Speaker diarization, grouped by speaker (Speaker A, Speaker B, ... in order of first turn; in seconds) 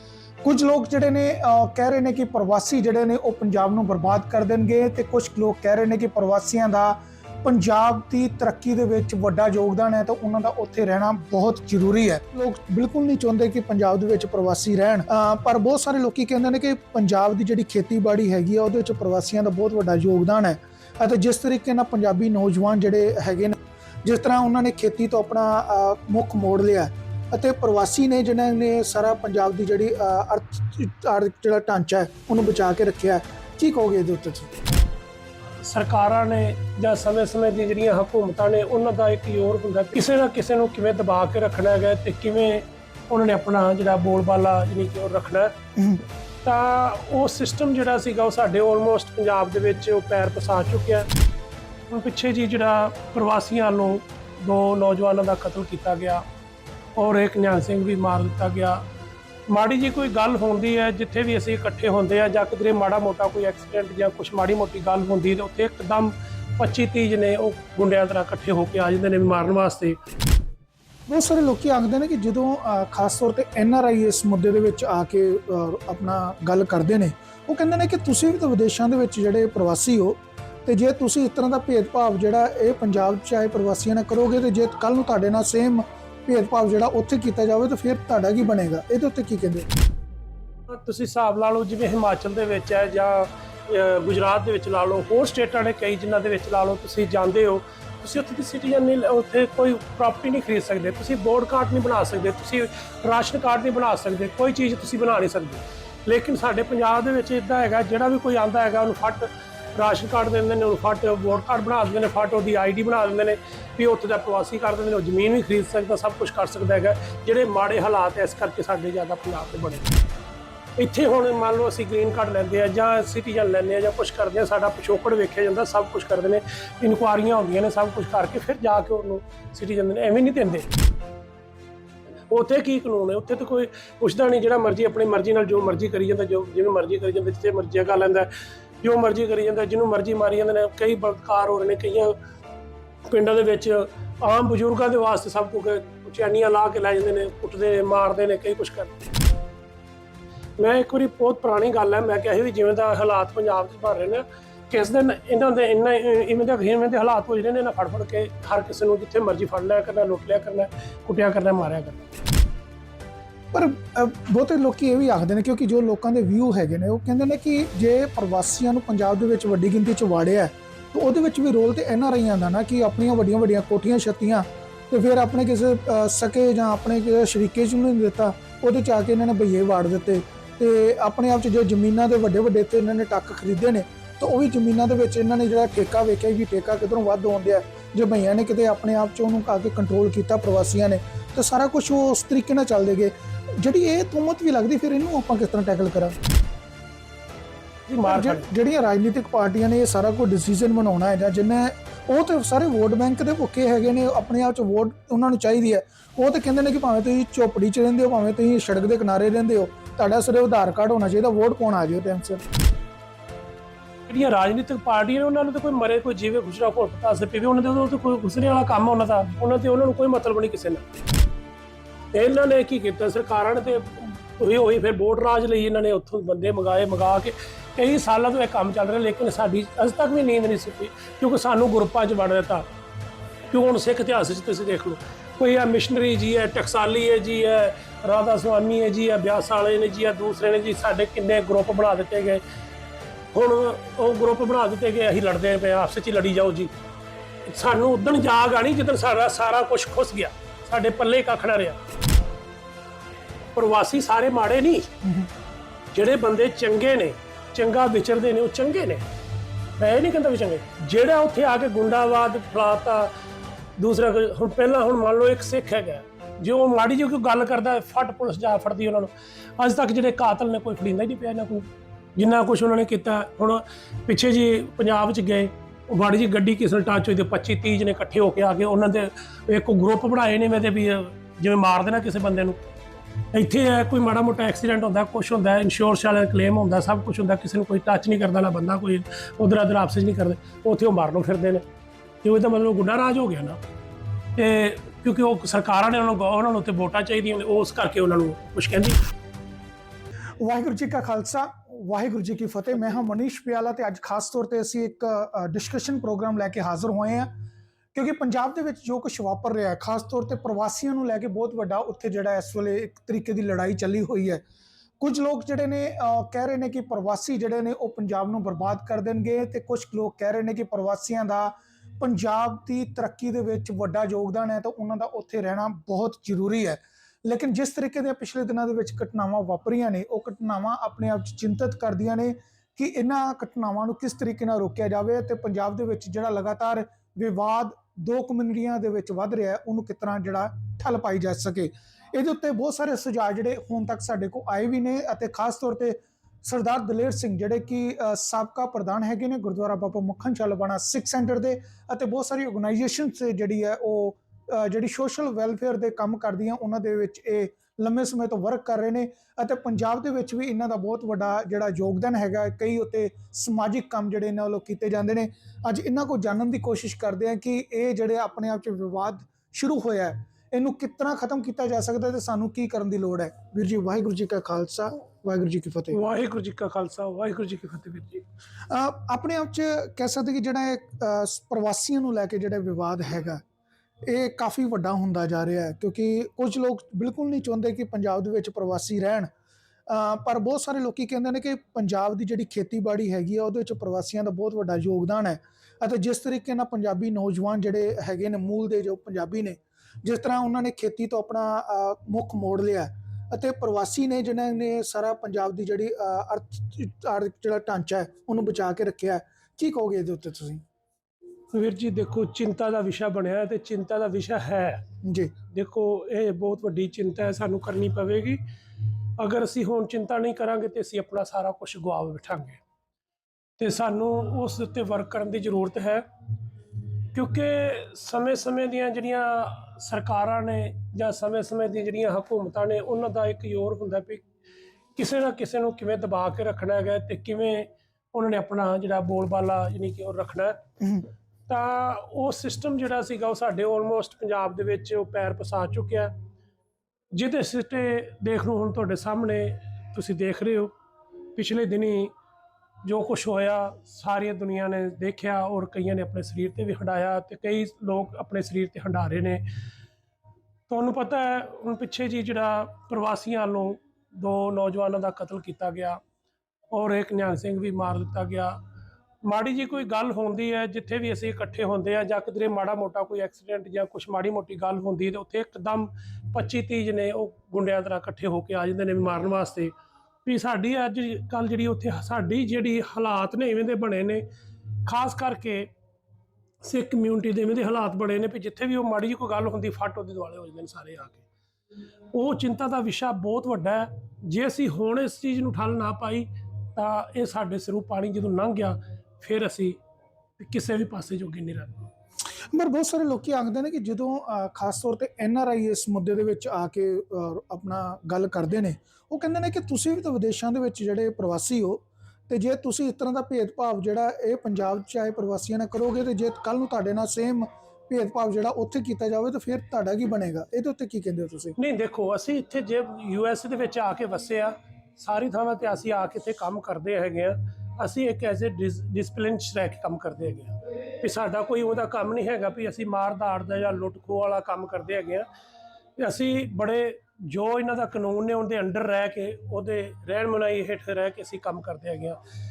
Speaker A: 0.4-34.6, 45.8-46.0, 71.1-89.7, 163.5-196.2, 198.0-212.4, 255.0-255.3, 300.4-307.3, 307.9-314.4, 315.0-376.0, 378.7-383.4, 384.0-389.3, 389.9-410.6, 415.0-415.3, 502.5-521.6
Speaker B: 35.6-45.6, 46.4-51.1, 51.9-56.2, 57.0-58.8, 59.5-70.0, 90.7-120.0, 120.8-130.8, 132.3-138.3, 138.8-142.2, 143.1-149.1, 150.6-162.2, 197.9-198.5, 214.1-220.9, 222.1-232.7, 233.5-242.4, 243.3-246.8, 247.5-251.8, 253.5-254.9, 255.9-259.1, 259.8-263.1, 263.8-282.6, 283.3-291.6, 292.2-293.6, 294.4-299.0, 375.9-378.2, 411.5-414.9, 415.5-418.4, 419.2-422.6, 423.6-426.1, 427.1-434.3, 435.0-440.6, 441.5-446.1, 447.1-450.7, 451.4-452.1, 452.8-459.5, 460.7-466.0, 466.7-468.6, 469.2-479.7, 480.2-484.2, 484.9-485.7, 486.6-491.2, 492.1-499.8, 500.4-501.9, 521.6-535.3, 536.0-542.2